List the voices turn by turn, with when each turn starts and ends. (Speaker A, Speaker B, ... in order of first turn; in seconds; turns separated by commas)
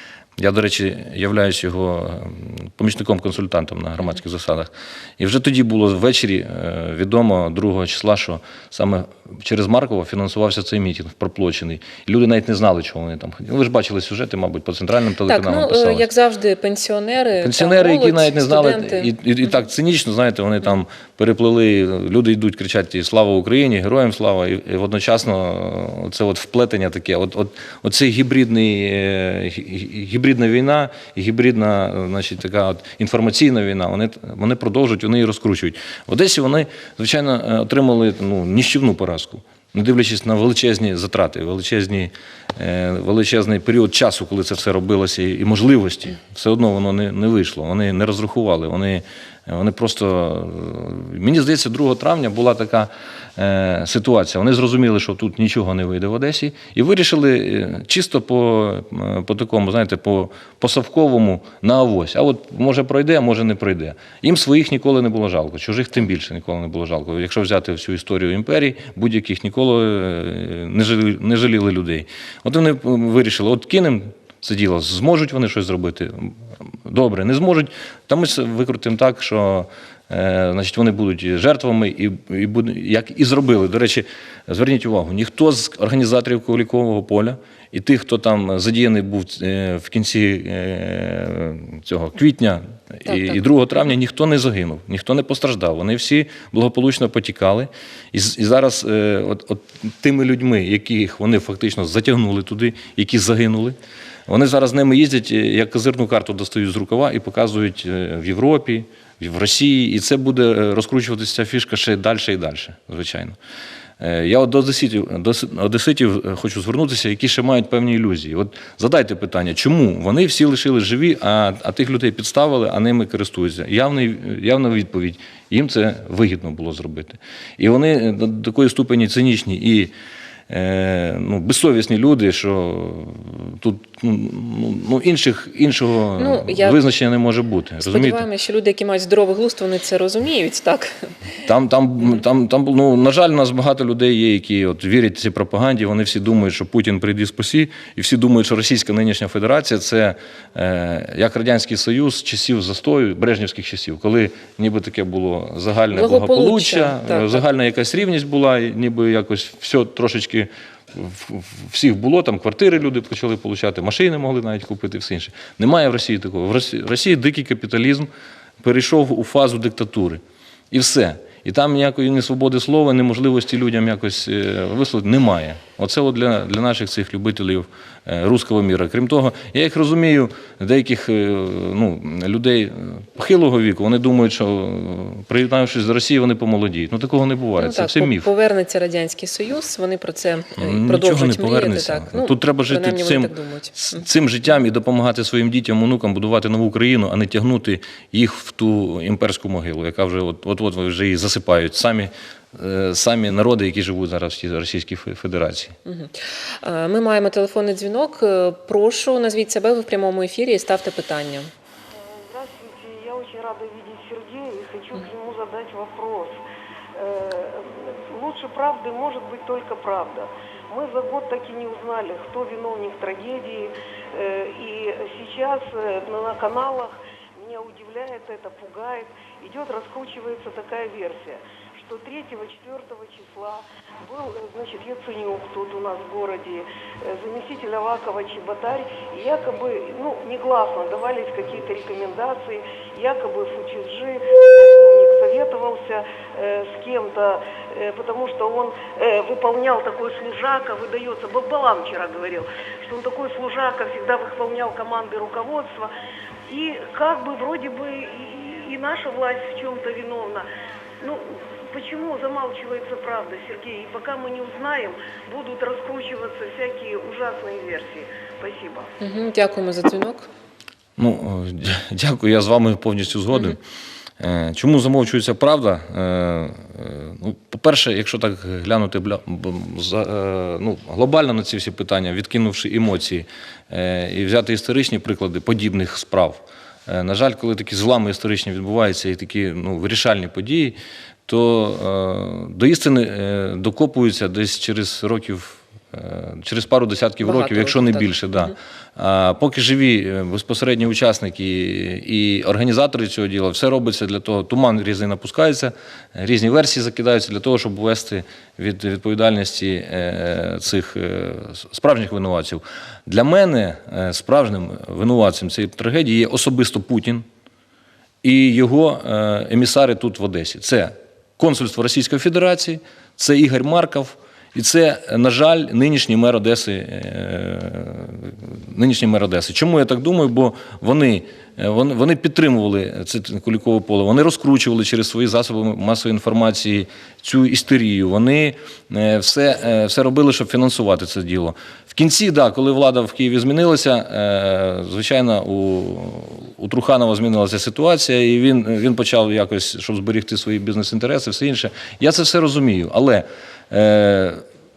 Speaker A: 0.4-16.1, Speaker B: 15.3-19.1, Speaker A: 17.4-103.8, Speaker B: 93.1-93.4, Speaker A: 104.3-113.4, Speaker A: 114.0-129.9, Speaker A: 130.5-138.2, Speaker B: 136.2-136.8, Speaker B: 137.8-141.1, Speaker A: 141.4-168.1, Speaker B: 155.9-157.4, Speaker A: 168.6-188.3, Speaker B: 187.6-194.0, Speaker A: 190.6-205.8, Speaker B: 205.9-211.5, Speaker C: 211.9-216.4, Speaker C: 216.9-255.9, Speaker C: 256.5-260.5, Speaker C: 261.0-268.9, Speaker B: 269.0-270.3, Speaker A: 271.0-273.6, Speaker A: 274.2-317.3, Speaker B: 297.2-298.5, Speaker A: 318.2-354.4